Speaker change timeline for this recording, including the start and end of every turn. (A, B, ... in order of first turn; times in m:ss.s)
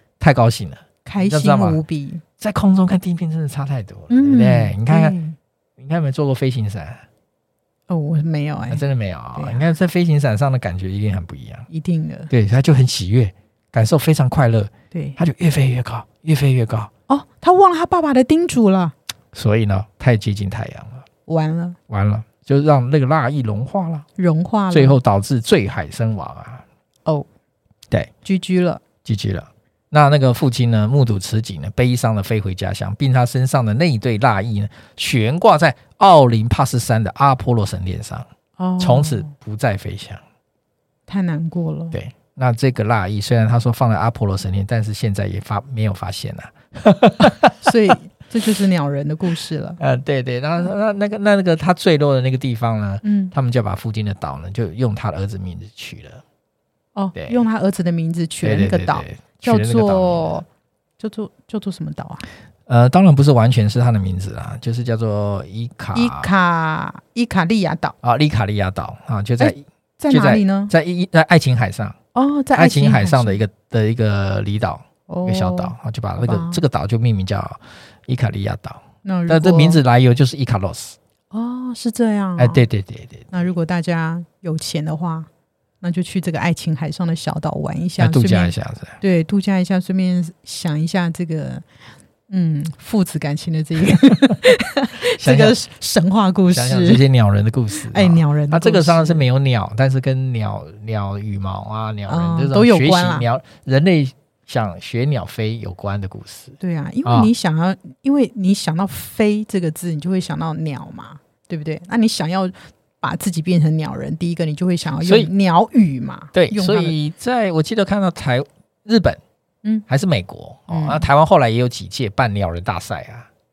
0:00.2-0:01.8 A
0:01.0-0:02.2 B
0:02.4-0:05.2 A
0:04.1-0:05.4 B
0:05.8-0:07.0 A
0:07.9-0:08.8 B
0:08.7-0:11.6 A
0:09.4-0:09.6 B
0:11.7-0:12.3 B
0:12.3-0:16.9 A
0:14.9-0:15.2 B
0:17.1-0:18.9 B
0:19.3-0:21.0 A
0:21.3-0:21.8 B
0:21.9-0:24.0 A
0:24.2-0:25.0 B
0:24.7-0:26.6 A
0:28.2-0:28.8 B
0:29.0-0:38.3 A
0:38.6-0:39.3 B
0:38.8-0:40.2 A
0:41.1-0:42.0 B
0:41.9-0:47.7 A
0:47.6-0:49.8 B
0:49.8-0:56.2 A
0:53.0-0:53.3 B
0:57.0-1:00.4 B
0:57.1-0:57.4 A
0:58.4-1:00.4 A
1:01.0-1:02.2 B
1:02.7-1:06.3 A
1:05.9-1:08.0 B
1:08.0-1:12.0 A
1:09.4-1:10.7 B
1:12.1-1:13.4 B
1:12.6-1:21.0 A
1:15.1-1:16.6 B
1:19.0-1:19.8 B
1:21.3-1:22.6 B
1:22.4-1:23.3 A
1:23.3-1:25.3 B
1:25.8-1:31.6 B
1:28.0-1:29.0 A
1:32.3-1:37.0 B
1:35.2-1:35.6 A
1:36.5-1:47.3 A
1:37.7-1:39.2 B
1:42.0-1:43.3 B
1:46.6-1:57.0 B
1:55.0-1:55.3 A
1:56.3-1:59.2 A
1:59.9-2:03.3 A
2:00.7-2:01.0 B